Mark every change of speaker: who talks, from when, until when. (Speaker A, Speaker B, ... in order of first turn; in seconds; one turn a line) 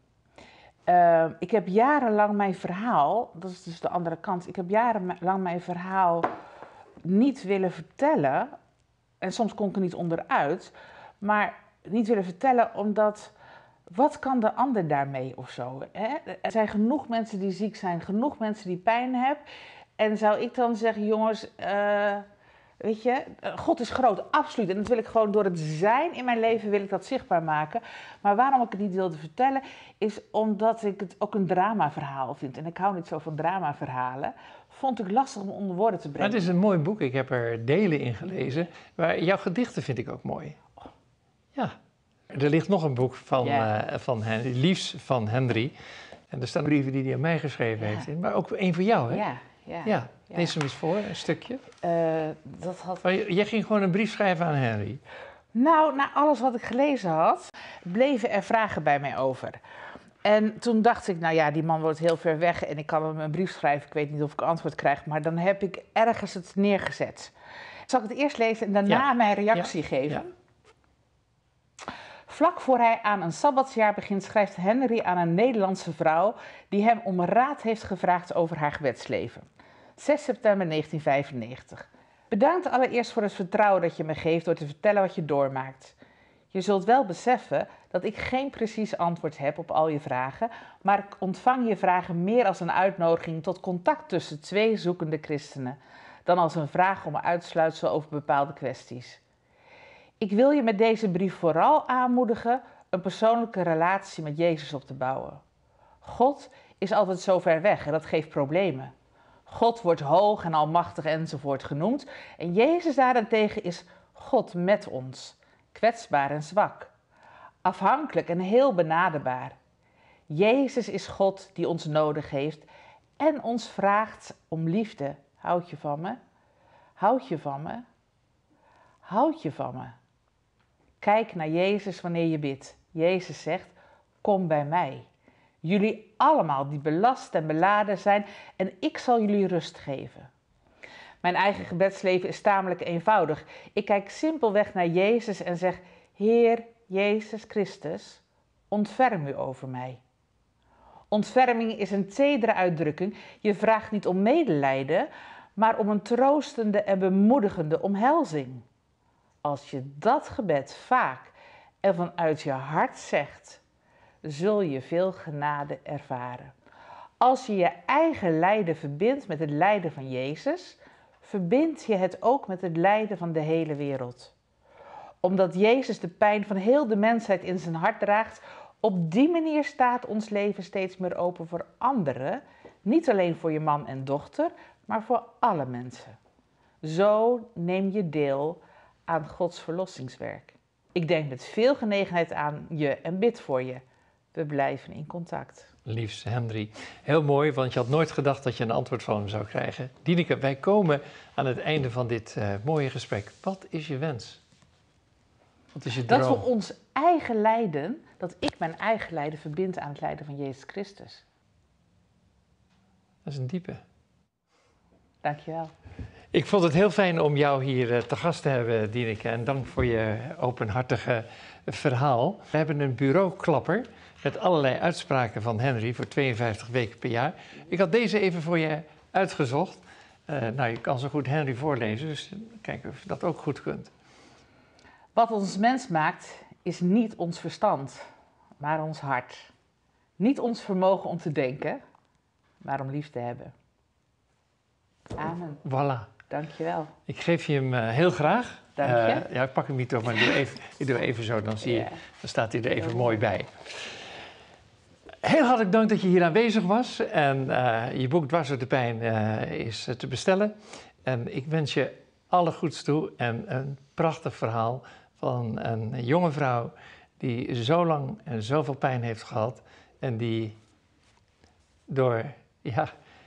Speaker A: 0.9-6.3
Speaker A: 7.0-8.5
Speaker A: 9.2-13.3
Speaker A: 13.9-19.4
Speaker A: 20.0-22.2
Speaker A: 22.8-36.4
Speaker B: 36.2-40.6
Speaker B: 42.3-45.7
Speaker A: 43.4-43.7
Speaker B: 46.3-49.2
Speaker A: 49.1-50.6
Speaker B: 49.9-51.6
Speaker A: 51.8-53.0
Speaker B: 53.0-55.0
Speaker A: 55.5-59.6
Speaker A: 60.2-67.3
Speaker A: 67.9-70.3
Speaker B: 68.9-70.1
Speaker A: 72.3-79.5
Speaker A: 80.0-86.0
Speaker A: 86.5-99.2
Speaker A: 100.2-105.4
Speaker A: 106.0-108.9
Speaker A: 109.5-116.9
Speaker A: 117.6-119.6
Speaker A: 120.3-122.7
Speaker A: 123.2-126.2
Speaker A: 127.0-127.8
Speaker A: 129.1-130.0
Speaker A: 131.0-135.1
Speaker A: 135.6-140.3
Speaker A: 141.2-150.0
Speaker A: 151.1-158.6
Speaker A: 159.4-163.6
Speaker A: 164.2-166.5
Speaker A: 167.2-174.3
Speaker A: 175.2-186.2
Speaker A: 186.8-193.8
Speaker A: 194.3-195.7
Speaker B: 195.9-204.4
Speaker B: 205.7-206.5
Speaker A: 206.1-211.2
Speaker B: 213.2-213.8
Speaker A: 215.2-215.7
Speaker B: 216.3-233.9
Speaker A: 235.1-238.1
Speaker A: 238.6-239.5
Speaker A: 240.2-241.8
Speaker A: 242.6-243.5
Speaker A: 245.2-245.6
Speaker B: 245.6-246.1
Speaker A: 246.3-246.9
Speaker B: 247.1-253.5
Speaker A: 248.8-249.3
Speaker B: 255.2-260.5
Speaker B: 261.1-270.6
Speaker B: 271.9-272.9